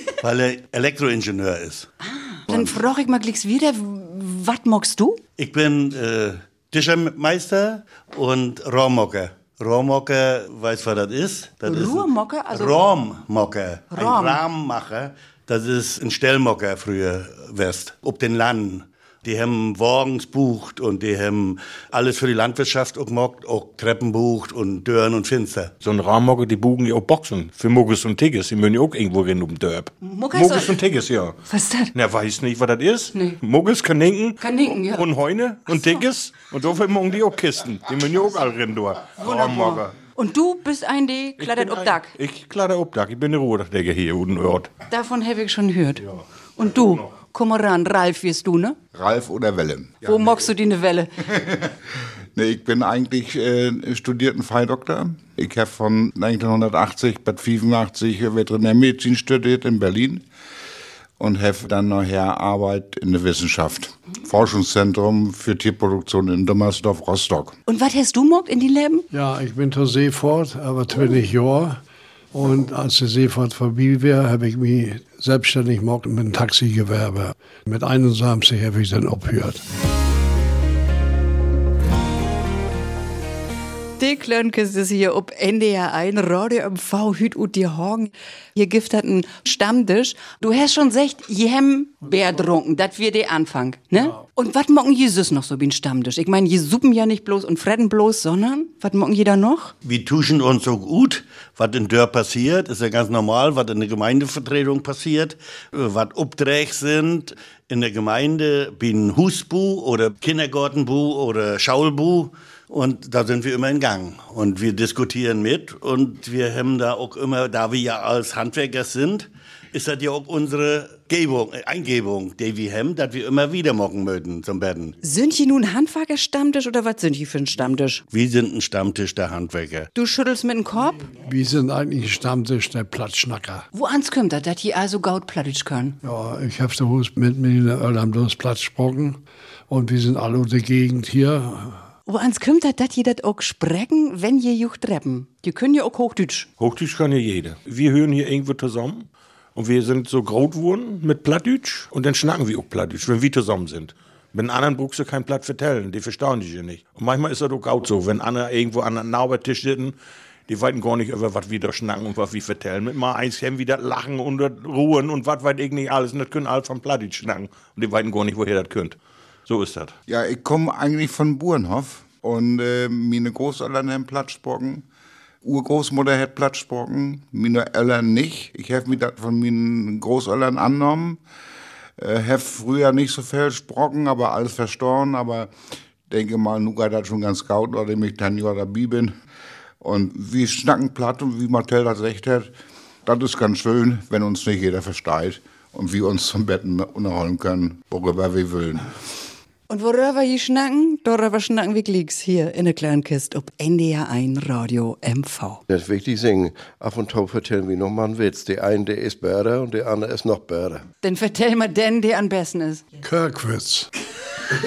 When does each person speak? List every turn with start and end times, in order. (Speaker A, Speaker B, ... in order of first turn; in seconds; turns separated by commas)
Speaker A: 0.2-1.9, Speaker B: 2.0-5.2, Speaker A: 5.4-25.7, Speaker B: 11.7-12.8, Speaker B: 13.9-14.4, Speaker C: 25.8-31.4, Speaker B: 30.0-30.8, Speaker B: 31.5-31.9, Speaker C: 31.9-39.9, Speaker B: 34.4-35.1, Speaker B: 35.7-36.0, Speaker B: 39.2-42.1, Speaker C: 41.4-44.7, Speaker B: 44.9-46.0, Speaker B: 46.6-48.8, Speaker D: 48.9-50.4, Speaker B: 50.0-51.1, Speaker D: 51.2-51.8, Speaker D: 52.4-60.2, Speaker D: 61.2-67.6, Speaker B: 67.7-69.1, Speaker E: 69.1-71.8, Speaker E: 72.3-79.6, Speaker B: 84.0-99.7, Speaker A: 99.8-125.0, Speaker B: 125.0-128.0, Speaker A: 128.1-129.9, Speaker B: 129.9-131.1, Speaker E: 131.2-133.7, Speaker B: 133.7-136.0, Speaker E: 136.0-141.8, Speaker B: 142.1-146.5, Speaker C: 146.6-159.9, Speaker C: 160.5-169.0, Speaker C: 169.5-169.9, Speaker D: 170.1-174.9, Speaker D: 175.4-181.2, Speaker D: 182.0-185.5, Speaker D: 186.1-189.1, Speaker D: 189.8-192.5, Speaker D: 193.1-198.9, Speaker B: 199.7-205.6, Speaker F: 205.7-210.8, Speaker B: 211.0-212.9, Speaker E: 213.0-213.9